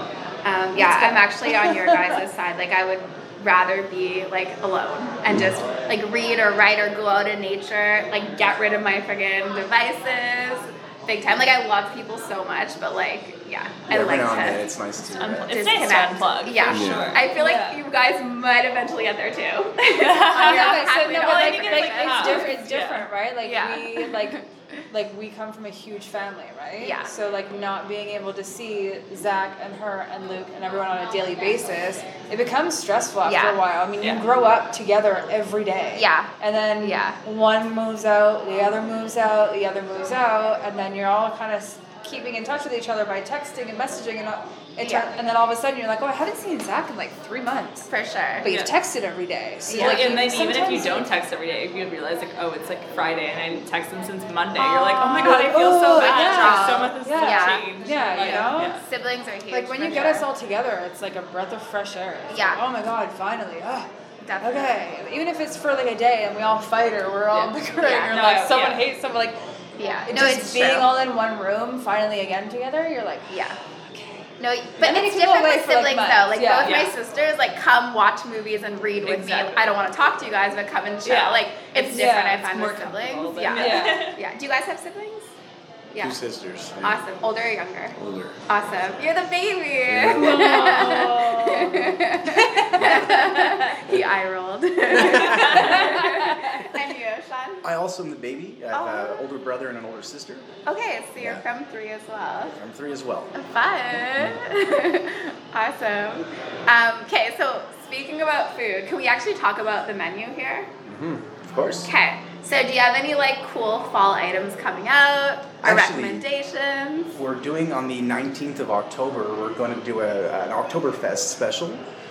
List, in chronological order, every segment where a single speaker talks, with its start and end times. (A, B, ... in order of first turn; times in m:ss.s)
0:00.4-0:14.7 A
0:00.8-0:02.1 B
0:13.9-0:15.5 C
0:15.2-0:17.3 D
0:15.5-0:22.6 A
0:16.7-0:17.2 E
0:17.4-0:17.8 B
0:19.9-0:23.1 D
0:20.4-0:47.9 B
0:23.4-0:24.3 A
0:26.8-0:27.1 A
0:33.2-0:33.6 A
0:36.0-0:37.2 A
0:44.8-0:45.1 A
0:47.9-0:48.5 A
0:48.4-0:51.1 B
0:48.4-0:48.7 D
0:49.7-0:50.4 A
0:49.8-0:58.8 D
0:54.6-0:58.8 B
0:55.0-0:55.3 A
0:55.9-1:00.2 A
0:59.5-1:03.9 B
1:02.3-1:02.6 A
1:04.2-1:04.8 A
1:04.4-1:09.4 B
1:07.8-1:08.2 A
1:08.1-1:08.8 D
1:09.8-1:10.9 A
1:10.1-1:13.4 B
1:13.3-1:13.6 A
1:13.9-1:14.3 B
1:14.4-1:25.3 A
1:14.8-1:16.8 B
1:16.6-1:16.9 D
1:19.0-1:19.8 D
1:21.0-1:24.2 D
1:21.7-1:22.4 B
1:23.5-1:24.1 B
1:25.9-1:26.2 A
1:26.0-1:27.0 E
1:26.8-1:27.9 A
1:27.9-1:28.4 E
1:28.5-1:37.6 A
1:29.9-1:30.6 E
1:30.2-1:33.4 B
1:34.9-1:35.6 E
1:35.3-1:36.2 D
1:35.6-1:36.3 B
1:37.6-1:40.4 C
1:38.7-1:39.2 A
1:40.6-1:42.6 A
1:42.6-1:43.3 C
1:43.3-1:50.7 A
1:50.8-1:51.3 E
1:51.5-1:51.9 C
1:51.8-1:57.2 A
1:55.6-1:56.2 C
1:57.2-2:01.8 C